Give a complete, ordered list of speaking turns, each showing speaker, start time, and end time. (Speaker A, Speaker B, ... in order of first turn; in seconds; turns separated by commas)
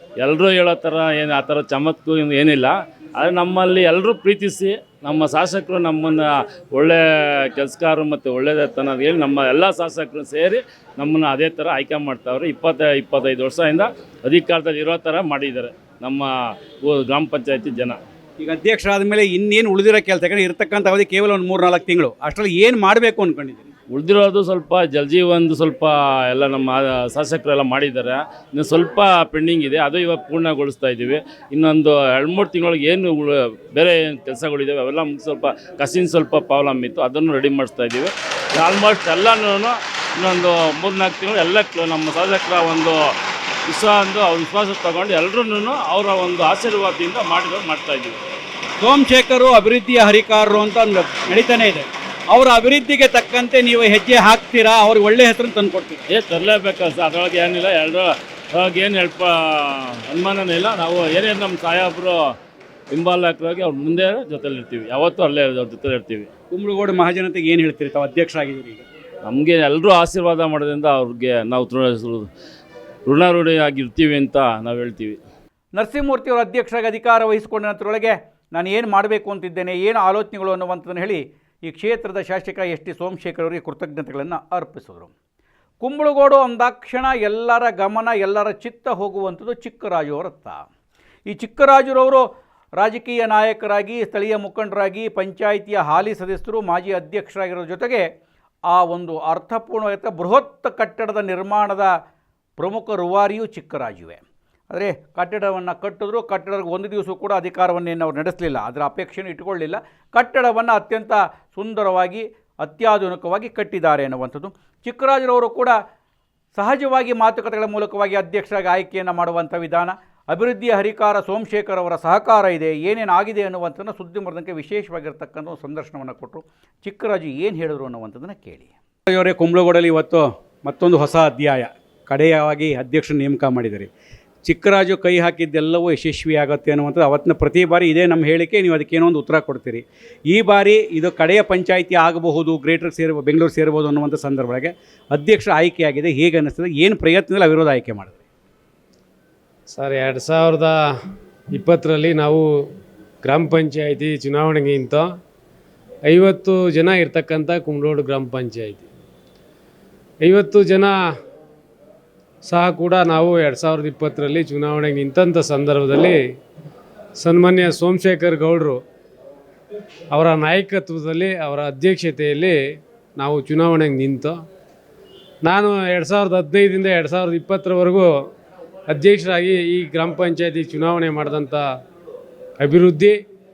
Speaker A: 0.2-18.0, Speaker B: 18.4-23.7, Speaker A: 23.9-43.0, Speaker A: 43.7-48.2, Speaker B: 48.8-56.0, Speaker A: 56.1-62.4, Speaker A: 62.9-66.3, Speaker B: 66.5-68.8, Speaker A: 69.2-72.3, Speaker A: 73.0-75.2, Speaker B: 75.7-85.1, Speaker B: 85.8-90.6, Speaker B: 91.3-92.2, Speaker B: 92.8-98.0, Speaker B: 98.7-101.9, Speaker B: 102.6-115.8, Speaker B: 116.5-133.9, Speaker B: 134.4-148.2, Speaker C: 149.7-150.8, Speaker C: 151.5-152.5, Speaker C: 153.2-155.1, Speaker C: 156.1-158.8, Speaker C: 160.2-160.9, Speaker C: 162.4-166.2, Speaker C: 167.2-168.8, Speaker C: 170.1-172.6, Speaker C: 173.2-174.4, Speaker C: 175.4-178.1, Speaker C: 178.9-181.6, Speaker C: 182.6-183.2